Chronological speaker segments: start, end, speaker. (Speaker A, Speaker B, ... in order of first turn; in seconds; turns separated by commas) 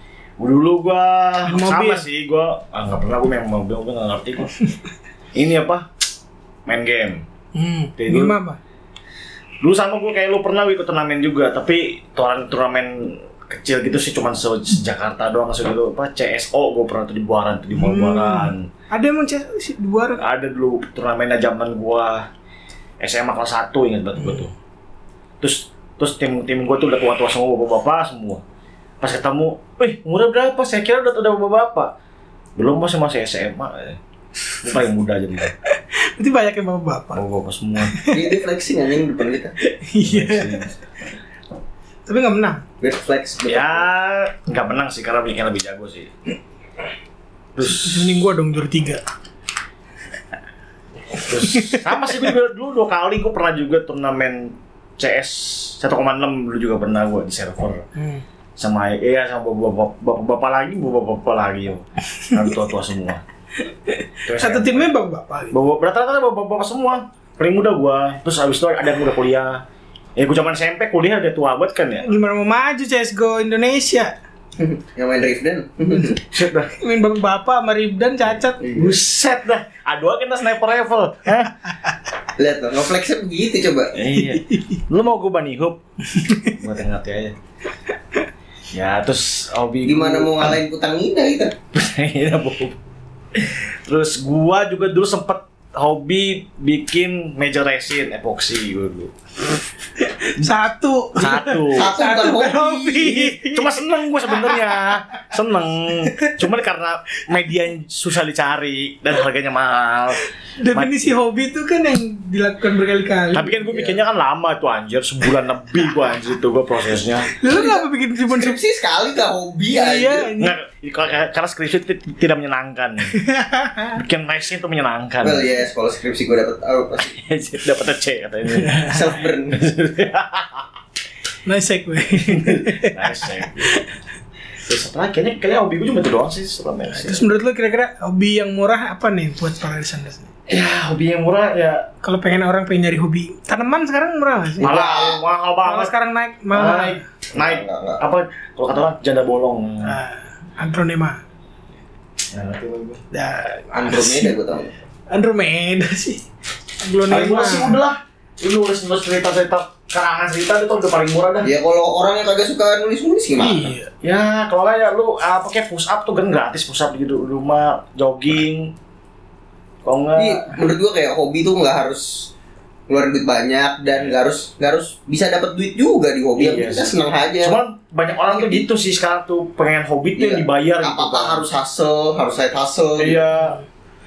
Speaker A: 0.4-4.5, Speaker B: 1.4-2.1, Speaker A: 5.3-5.9, Speaker A: 6.7-7.2, Speaker B: 7.5-8.6, Speaker A: 8.0-8.4, Speaker A: 9.6-18.7, Speaker B: 17.7-20.2, Speaker A: 20.2-22.2, Speaker A: 23.0-24.5, Speaker A: 25.4-28.4, Speaker A: 29.0-31.9, Speaker A: 32.6-34.0, Speaker A: 34.6-35.5, Speaker B: 35.7-37.2, Speaker A: 37.1-37.9, Speaker B: 37.9-38.3, Speaker C: 38.1-39.5, Speaker B: 39.6-40.6, Speaker A: 40.0-40.7, Speaker B: 42.1-42.6, Speaker C: 42.8-43.9, Speaker A: 43.5-46.1, Speaker A: 47.5-48.2, Speaker B: 47.6-49.0, Speaker A: 51.2-57.8, Speaker B: 51.4-51.9, Speaker B: 58.0-58.2, Speaker A: 58.6-63.2, Speaker B: 63.9-65.6, Speaker A: 64.2-64.9, Speaker A: 65.5-69.6, Speaker A: 70.2-72.0, Speaker B: 72.0-74.1, Speaker C: 74.6-76.2, Speaker A: 76.3-76.7, Speaker B: 76.8-78.6, Speaker C: 78.6-79.0, Speaker A: 78.7-81.6, Speaker C: 82.4-84.0, Speaker A: 83.9-85.8, Speaker B: 84.2-84.6, Speaker B: 86.1-86.6, Speaker A: 86.5-87.4, Speaker A: 88.7-90.6, Speaker C: 89.8-91.5, Speaker A: 91.7-92.8, Speaker A: 93.3-99.1, Speaker B: 100.0-104.7, Speaker A: 101.1-101.9, Speaker C: 101.7-103.3, Speaker A: 103.0-110.2, Speaker B: 110.6-113.7, Speaker A: 113.3-117.3, Speaker B: 117.4-118.6, Speaker C: 117.5-120.3, Speaker B: 119.7-120.5, Speaker A: 120.4-123.1, Speaker B: 123.1-124.0, Speaker A: 124.0-125.6, Speaker C: 125.2-127.1, Speaker A: 127.1-129.0, Speaker B: 128.5-129.0, Speaker C: 128.9-129.6, Speaker A: 129.5-130.7, Speaker B: 131.4-133.9, Speaker A: 132.2-133.8, Speaker A: 134.6-137.2, Speaker B: 136.9-140.3, Speaker A: 140.5-141.9, Speaker B: 142.0-144.7, Speaker C: 144.6-145.2, Speaker A: 144.6-145.9, Speaker B: 145.6-147.0, Speaker A: 146.5-150.0, Speaker C: 147.3-148.0, Speaker B: 149.8-151.2, Speaker A: 152.3-153.0, Speaker B: 153.1-154.3, Speaker C: 153.7-154.7, Speaker B: 155.1-156.2, Speaker B: 156.8-157.8, Speaker A: 157.1-161.5, Speaker C: 161.4-163.7, Speaker B: 163.4-163.9, Speaker A: 164.0-168.7, Speaker A: 169.8-170.6, Speaker C: 170.2-172.3, Speaker C: 172.9-177.6, Speaker A: 176.4-181.5, Speaker C: 178.3-178.6, Speaker C: 180.2-183.2, Speaker A: 183.0-183.6